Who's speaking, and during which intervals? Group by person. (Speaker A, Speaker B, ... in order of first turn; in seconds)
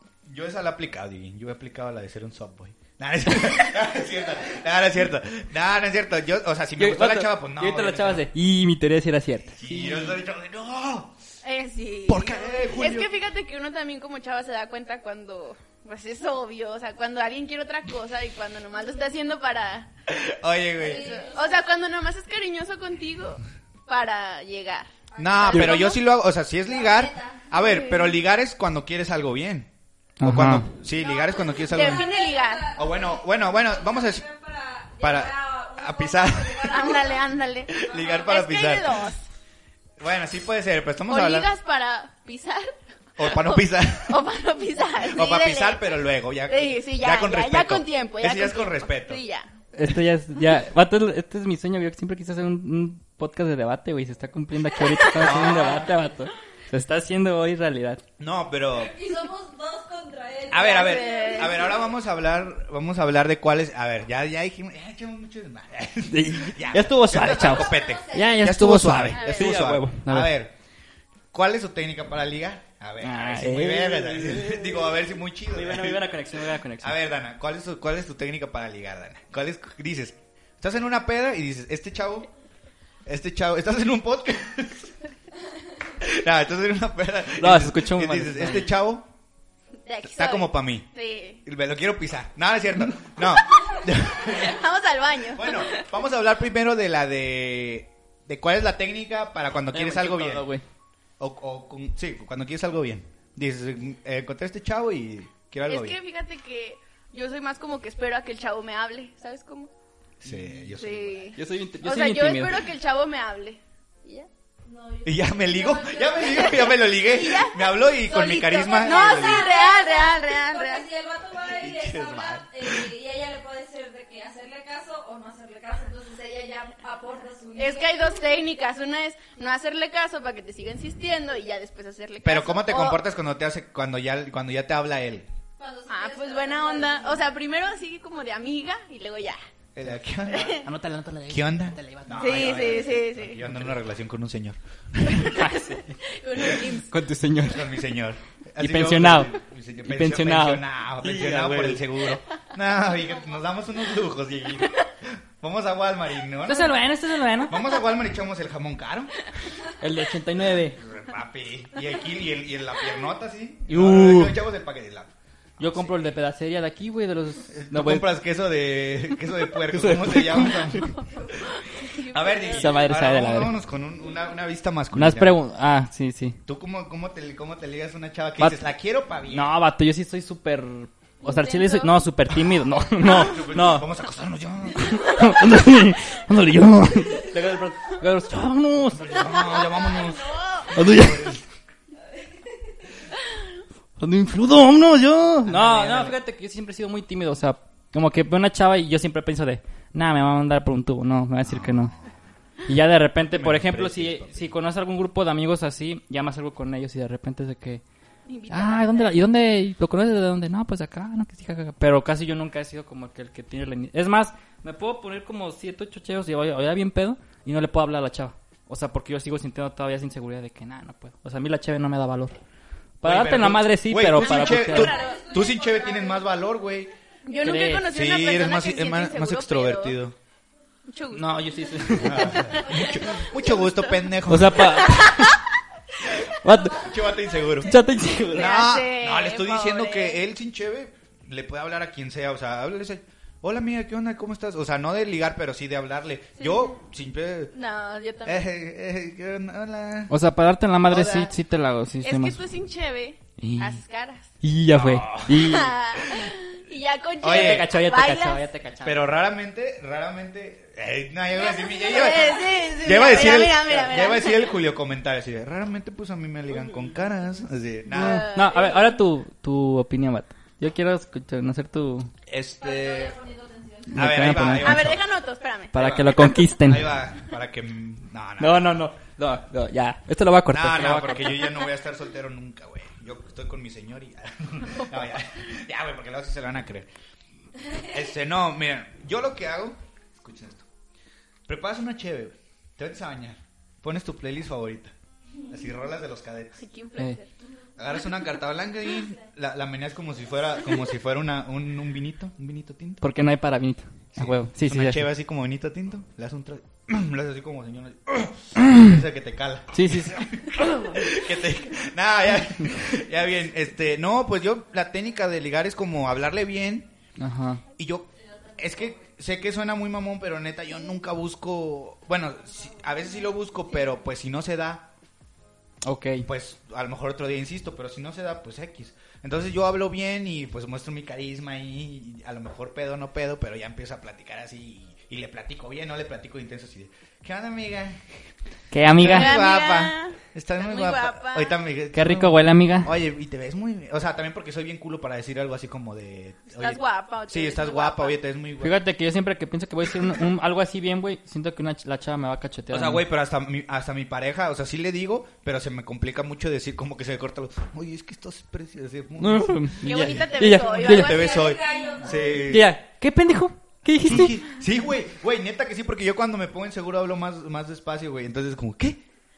Speaker A: 0.2-8.3, 9.5-11.2, 12.1-13.1, 20.1-21.2, 25.2-29.7, 30.2-32.1, 32.8-34.2, 35.0-37.0, 37.7-39.0, 40.0-41.5, 43.2-44.2, 45.0-49.2, 55.1-55.9, 58.2-58.9, 60.5-70.5, 71.3-76.3, 76.8-82.3, 83.0-84.9, 86.0-89.1, 90.0-90.9, 91.4-94.6, 95.3-100.5, 101.2-106.0, 110.2-111.3, 115.0-119.5, 121.4-122.9, 132.2-135.3, 139.7-140.7, 141.3-145.4, 147.4-156.8, 157.4-159.2, 160.8-166.1, 167.5-171.0, 172.1-175.3, 176.5-179.5, 183.0-185.3, 188.9-191.4, 195.4-196.2, 201.4-202.1, 203.3-204.5, 223.0-226.9, 227.9-230.2, 231.9-235.1, 236.7-237.8, 238.3-247.5, 248.2-250.1, 250.9-251.3, 254.7-256.3, 257.2-257.7, 258.8-268.2, 272.3-273.1, 273.9-275.0, 275.8-278.8, 280.5-286.9, 287.8-290.6, 291.5-294.9, 295.5-296.6, 297.8-303.0, 304.1-316.9, 317.8-324.9, 326.2-338.2, 338.9-348.8, 352.7-362.7, 364.0-369.0
Speaker B: 6.8-10.2, 25.5-25.8, 30.2-30.7, 49.7-58.0, 66.1-70.3, 73.0-77.0, 87.3-88.7, 99.7-100.6, 110.2-110.7, 111.3-112.6, 140.6-142.8, 145.1-146.0, 146.9-147.8, 148.6-151.9, 156.4-157.6, 159.8-160.8, 163.7-164.4, 165.6-168.1, 169.6-170.9, 172.5-173.5, 174.9-176.4, 178.4-178.6, 179.3-183.9, 184.8-189.3, 190.7-191.4, 194.0-201.9, 202.7-207.8, 208.5-222.4, 223.0-224.9, 227.4-227.9, 231.1-232.6, 234.3-235.4, 236.2-237.0, 237.6-238.6, 250.1-252.4, 253.4-253.8, 254.4-255.8, 257.2-259.0, 267.9-272.1, 273.9-274.9, 275.7-277.0, 278.4-281.4, 303.0-305.0, 308.6-308.9, 309.7-311.1, 317.2-317.6, 325.8-326.3, 338.7-339.4, 341.9-342.9, 348.6-353.0, 359.2-361.2, 362.4-364.4
Speaker C: 11.4-19.9, 20.8-24.9, 25.5-25.9, 27.6-28.1, 31.6-32.7, 36.7-39.2, 41.1-49.5, 60.5-61.8, 69.1-69.7, 89.8-91.4, 93.6-95.9, 105.7-109.7, 110.8-114.3, 116.2-120.9, 127.6-133.0, 135.9-139.4, 140.3-140.7, 142.2-143.4, 146.0-146.9, 171.5-172.8, 181.2-182.0, 189.2-190.7, 208.3-209.2, 224.2-225.4, 227.2-230.0, 230.9-231.4, 232.1-235.3, 238.3-240.2, 246.4-246.7, 247.5-248.5, 252.0-254.3, 255.3-258.4, 261.5-264.5, 267.9-268.9, 274.6-276.0, 296.6-297.3, 339.0-341.6, 346.6-348.2, 359.8-362.0
Speaker D: 20.8-21.6, 25.1-26.0, 26.7-27.4, 31.0-37.2, 37.8-38.4, 58.7-61.8, 67.5-68.3, 114.6-116.8, 118.6-128.2, 135.6-137.3, 224.7-226.2, 232.6-233.1, 272.6-274.0, 318.2-319.1, 360.9-362.4